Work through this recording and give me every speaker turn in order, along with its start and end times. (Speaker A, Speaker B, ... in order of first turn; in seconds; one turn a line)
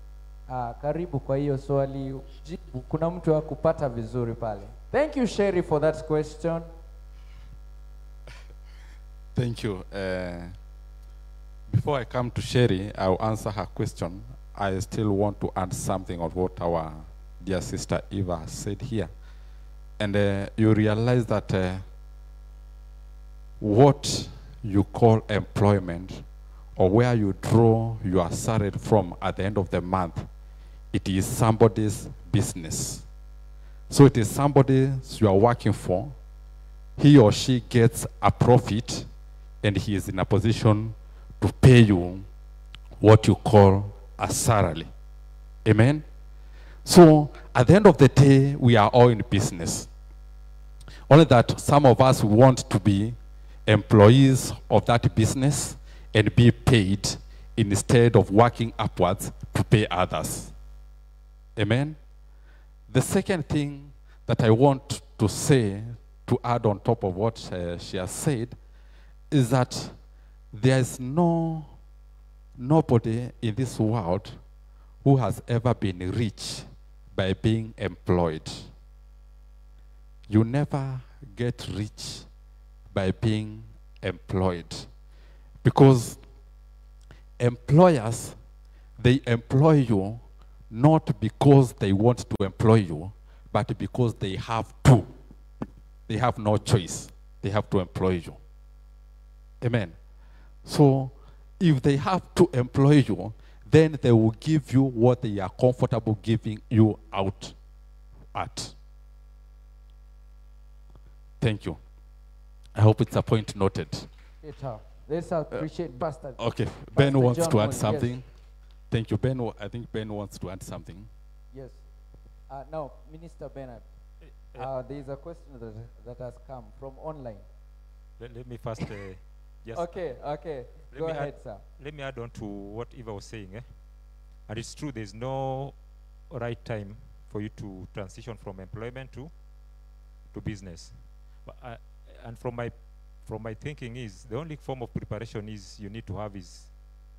Speaker A: 0.5-6.7
Speaker B: 9.3-10.5
Speaker B: 11.7-19.1
Speaker B: 20.0-21.9
Speaker B: 23.6-26.2
Speaker B: 26.8-30.3
Speaker B: 30.9-33.1
Speaker B: 33.9-36.1
Speaker B: 37.0-39.1
Speaker B: 39.6-42.3
Speaker B: 43.0-44.9
Speaker B: 45.6-46.0
Speaker B: 46.9-49.9
Speaker B: 51.1-60.5
Speaker B: 61.6-62.0
Speaker B: 62.9-68.6
Speaker B: 69.3-70.0
Speaker B: 70.5-71.7
Speaker B: 72.6-74.4
Speaker B: 75.0-78.7
Speaker B: 80.3-82.3
Speaker B: 82.9-84.9
Speaker B: 85.6-86.2
Speaker B: 87.4-88.4
Speaker B: 89.0-95.1
Speaker B: 96.1-98.4
Speaker B: 99.6-100.0
Speaker B: 100.7-107.6
Speaker B: 108.3-108.8
Speaker B: 111.4-111.8
Speaker B: 112.8-114.1
Speaker A: 114.4-116.4
Speaker B: 116.4-118.3
Speaker A: 116.9-118.2
Speaker B: 118.9-121.1
Speaker A: 121.5-121.8
Speaker A: 122.5-123.9
Speaker A: 124.5-127.5
Speaker C: 128.2-130.0
Speaker A: 129.7-131.6
Speaker C: 130.9-133.6
Speaker C: 134.5-135.8
Speaker C: 136.3-139.3
Speaker C: 140.3-140.9
Speaker C: 141.5-142.7
Speaker C: 143.2-146.7